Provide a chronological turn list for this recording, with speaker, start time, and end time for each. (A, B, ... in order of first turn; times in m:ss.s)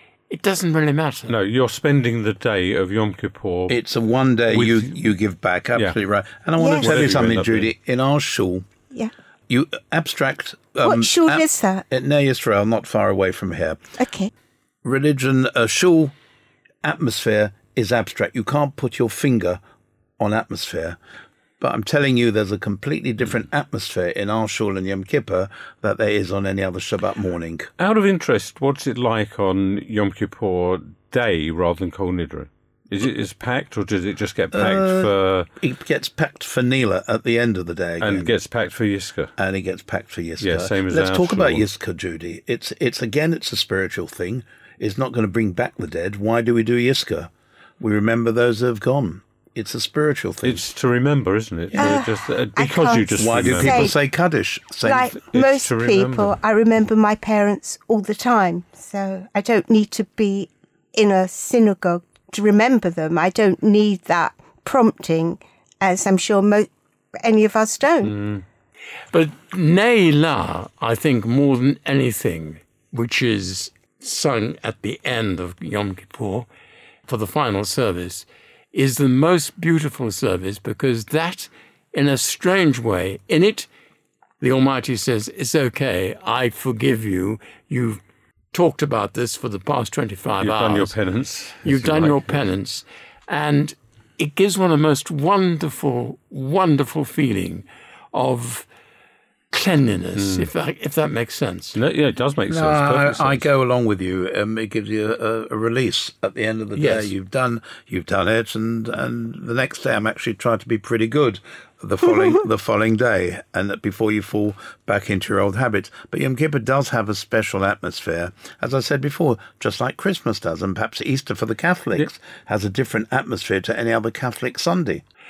0:00.3-0:01.3 A
0:01.3-0:03.8 B
0:03.7-0:08.7 C
0:04.5-0:05.0 B
0:06.6-0:07.0 D
0:06.7-0:07.7 B
0:09.5-0:13.8 C
0:10.8-0:11.8 D
0:14.0-0:14.3 D
0:14.8-0:16.1 C
0:16.8-0:19.6 C
0:20.2-0:21.0 C
0:21.6-0:27.7 C
0:27.8-0:35.5 B
0:34.5-0:38.3 C
0:38.0-0:39.3 B
0:39.4-0:50.7 C
0:40.4-0:41.6 B
0:50.4-0:53.9 B
0:51.7-0:54.0 D
0:53.2-0:55.1 C
0:54.8-1:06.7 D
0:55.1-0:56.3 B
1:07.2-1:08.2 D
1:08.1-1:08.4 B
1:09.1-1:16.5 A
1:17.1-1:23.7 A
1:24.4-1:28.0 A
1:28.5-1:30.9 A
1:30.4-1:32.4 B
1:31.6-1:38.7 A
1:39.5-1:41.8 A
1:40.2-1:40.5 B
1:41.7-1:43.5 B
1:42.5-2:05.0 C
1:46.7-1:47.1 A